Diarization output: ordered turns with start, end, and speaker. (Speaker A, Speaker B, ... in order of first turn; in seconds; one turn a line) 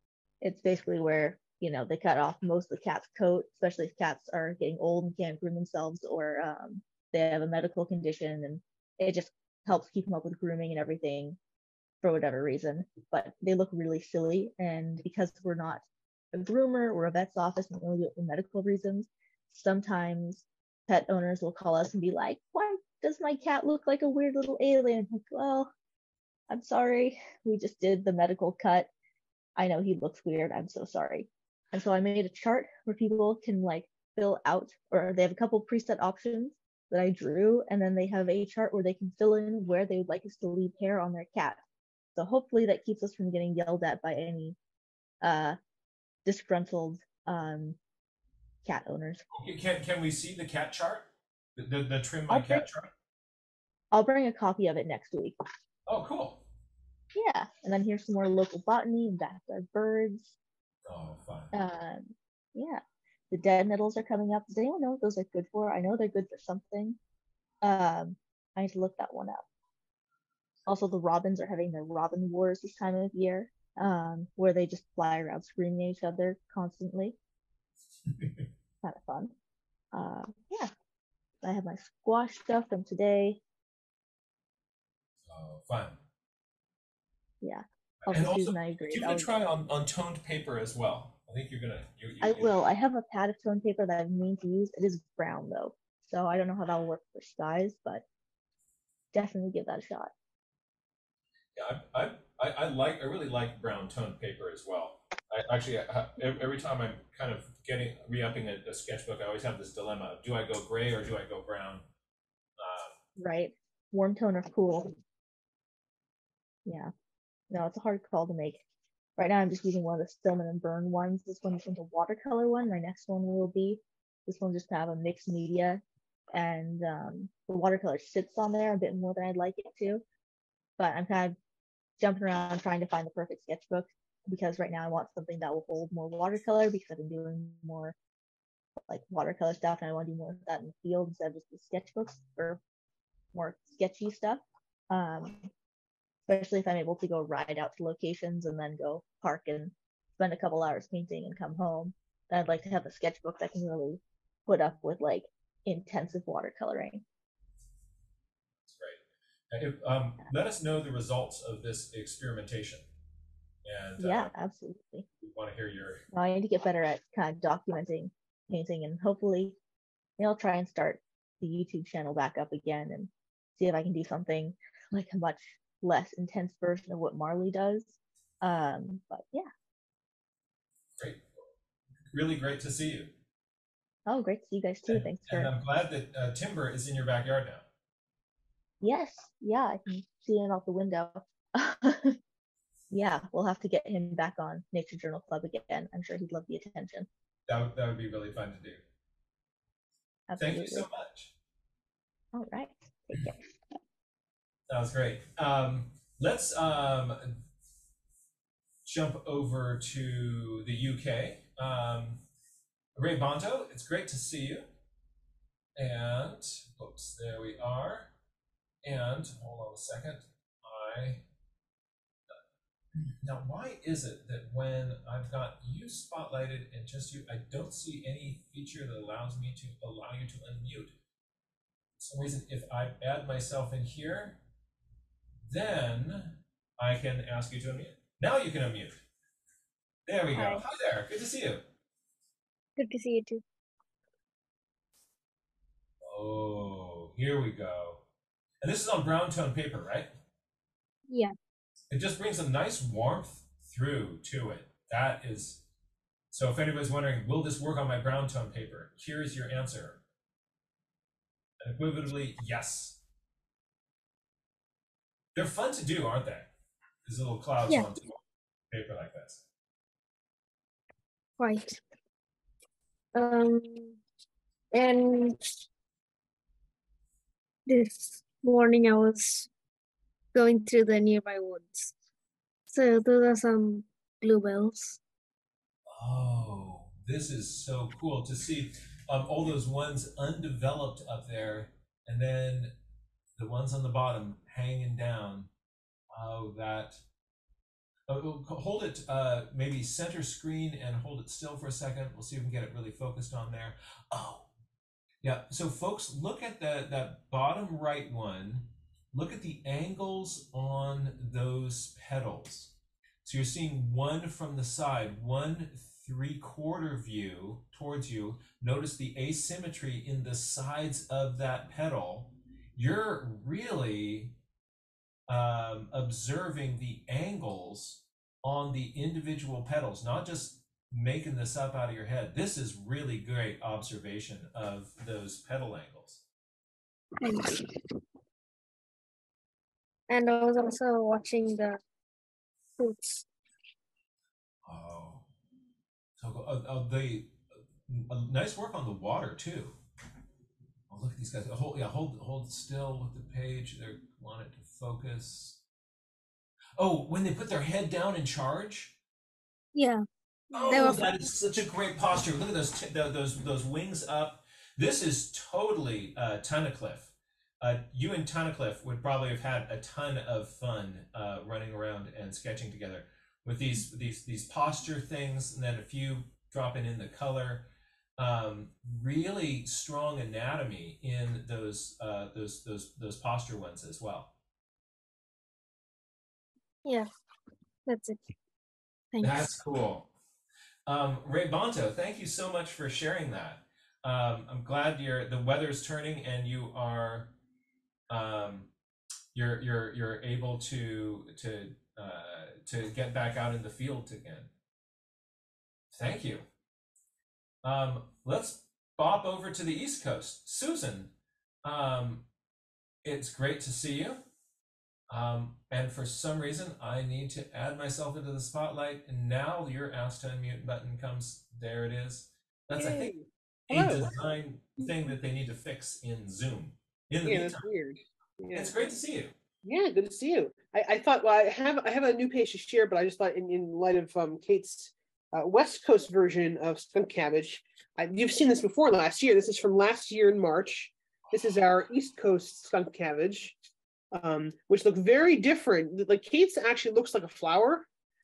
Speaker A: 0.4-11.4
Speaker A: 12.0-25.7
Speaker A: 26.5-28.9
Speaker A: 29.6-41.6
Speaker A: 42.2-44.6
Speaker A: 45.2-45.6
Speaker A: 46.2-47.8
Speaker A: 48.6-49.2
Speaker B: 49.3-52.9
Speaker A: 52.3-52.7
Speaker A: 53.9-55.4
Speaker B: 55.9-56.4
Speaker A: 57.1-60.3
Speaker B: 60.9-61.5
Speaker A: 61.5-67.0
Speaker A: 67.6-69.4
Speaker A: 70.7-77.2
Speaker A: 78.8-79.3
Speaker A: 79.9-80.7
Speaker A: 81.4-83.4
Speaker B: 85.3-86.0
Speaker A: 87.4-89.3
Speaker B: 88.0-92.5
Speaker A: 92.2-98.0
Speaker A: 99.1-100.1
Speaker B: 101.6-111.8
Speaker B: 112.6-113.0
Speaker A: 113.2-115.0
Speaker A: 116.7-116.9
Speaker A: 117.5-118.6
Speaker A: 119.2-130.0
Speaker A: 130.8-131.4
Speaker A: 132.0-137.9
Speaker A: 138.9-142.6
Speaker A: 143.3-145.5
Speaker A: 146.3-157.0
Speaker B: 158.7-159.0
Speaker B: 159.5-162.9
Speaker B: 163.7-164.3
Speaker A: 164.0-165.1
Speaker B: 165.2-166.0
Speaker A: 166.1-169.6
Speaker A: 170.2-179.5
Speaker B: 181.0-181.2
Speaker B: 182.1-183.1
Speaker A: 184.1-185.5
Speaker B: 184.9-187.6
Speaker A: 188.8-192.2
Speaker A: 192.9-197.1
Speaker B: 197.5-198.8
Speaker A: 200.3-200.9
Speaker B: 200.4-201.3
Speaker A: 202.3-203.3
Speaker B: 204.7-207.3
Speaker B: 208.9-212.2
Speaker B: 213.0-214.7
Speaker B: 215.8-218.1
Speaker B: 218.8-221.2
Speaker B: 222.9-230.9
Speaker B: 232.0-234.4
Speaker B: 235.5-239.0
Speaker B: 240.1-241.6
Speaker C: 240.3-240.6
Speaker C: 242.8-243.4
Speaker B: 246.0-248.0
Speaker B: 248.6-250.1
Speaker B: 251.9-255.6
Speaker B: 256.3-260.0
Speaker B: 261.6-263.0
Speaker B: 265.4-266.5
Speaker B: 267.1-268.2
Speaker B: 268.7-269.4
Speaker C: 271.4-271.8
Speaker C: 273.1-274.0
Speaker C: 274.7-275.6
Speaker C: 277.7-279.5
Speaker C: 280.3-281.9
Speaker C: 282.7-285.0
Speaker B: 285.9-292.7
Speaker B: 293.4-295.5
Speaker B: 296.1-297.0
Speaker B: 298.1-304.5
Speaker B: 305.2-312.7
Speaker B: 313.2-324.4
Speaker B: 325.3-336.2
Speaker C: 337.2-337.7
Speaker C: 340.1-341.8
Speaker C: 342.8-343.3
Speaker B: 344.7-345.2
Speaker B: 346.2-347.3
Speaker B: 347.9-349.8
Speaker B: 350.9-355.6
Speaker B: 356.8-358.9
Speaker C: 359.8-360.0
Speaker B: 360.5-377.7
Speaker C: 360.5-361.2
Speaker B: 378.2-384.3
Speaker C: 387.9-388.3
Speaker C: 389.1-389.5
Speaker B: 389.2-390.1
Speaker B: 390.9-397.3
Speaker B: 398.1-398.7
Speaker B: 399.3-404.5
Speaker B: 405.9-406.4
Speaker B: 407.6-411.1
Speaker B: 411.6-412.2
Speaker B: 413.1-414.2
Speaker B: 415.1-423.1
Speaker D: 422.8-424.2
Speaker B: 423.7-427.6
Speaker D: 427.2-428.7
Speaker B: 428.5-429.3
Speaker D: 429.6-443.6
Speaker D: 444.1-447.9